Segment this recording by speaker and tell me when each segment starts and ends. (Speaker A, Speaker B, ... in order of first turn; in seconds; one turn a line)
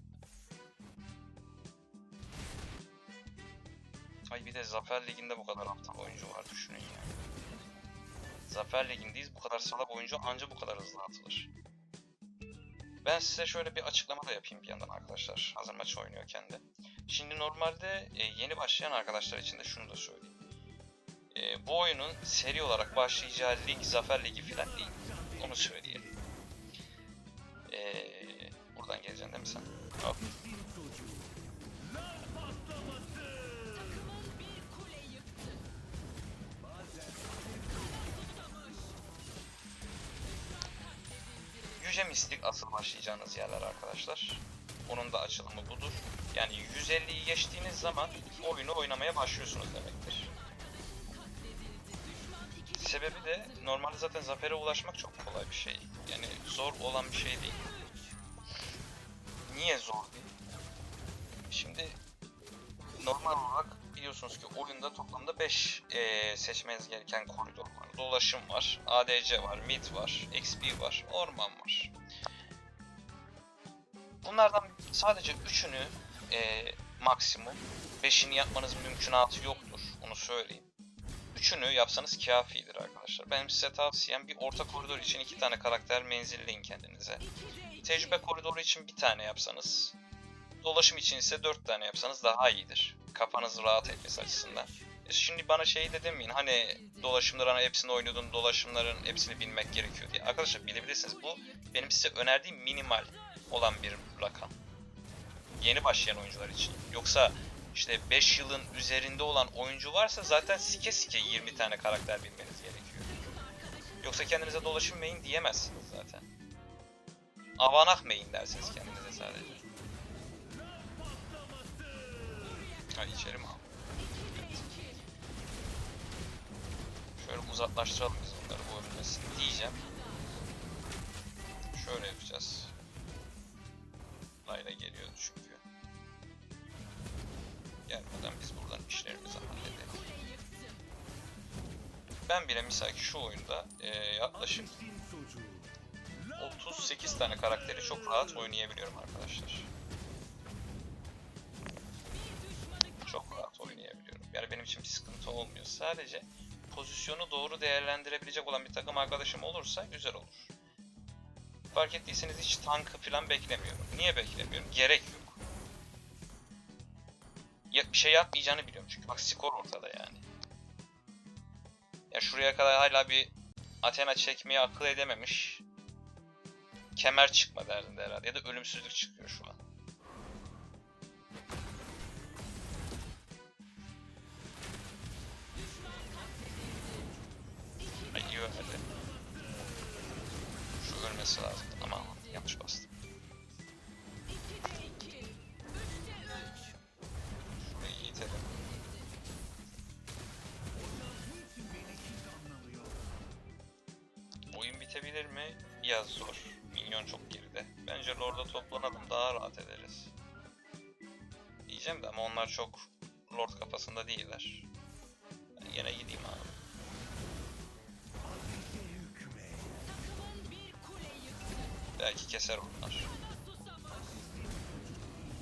Speaker A: 4.3-7.1
Speaker A: 8.5-11.5
Speaker A: 13.0-20.3
Speaker A: 21.3-26.1
Speaker A: 27.7-30.2
Speaker B: 30.4-31.1
Speaker B: 32.5-33.0
Speaker B: 36.7-38.1
Speaker A: 41.7-50.3
Speaker A: 52.7-57.8
Speaker A: 59.5-60.3
Speaker A: 61.5-62.0
Speaker A: 63.0-71.9
Speaker A: 74.2-80.7
Speaker A: 81.3-87.2
Speaker A: 87.8-90.0
Speaker A: 90.6-104.5
Speaker A: 105.6-113.1
Speaker A: 114.0-116.2
Speaker A: 117.6-119.7
Speaker A: 123.0-123.7
Speaker A: 124.2-124.9
Speaker A: 127.2-129.8
Speaker A: 131.7-132.7
Speaker A: 134.4-135.6
Speaker A: 137.9-140.1
Speaker A: 142.3-144.8
Speaker B: 144.9-145.4
Speaker A: 146.3-149.7
Speaker A: 153.0-160.5
Speaker A: 161.7-165.3
Speaker A: 167.7-170.2
Speaker A: 172.1-175.6
Speaker A: 176.9-179.6
Speaker A: 188.1-188.8
Speaker A: 190.8-192.9
Speaker A: 197.6-198.6
Speaker B: 201.1-202.9
Speaker A: 204.5-210.1
Speaker A: 211.7-214.7
Speaker A: 215.6-216.6
Speaker B: 218.3-219.6
Speaker A: 221.9-223.1
Speaker B: 224.0-224.6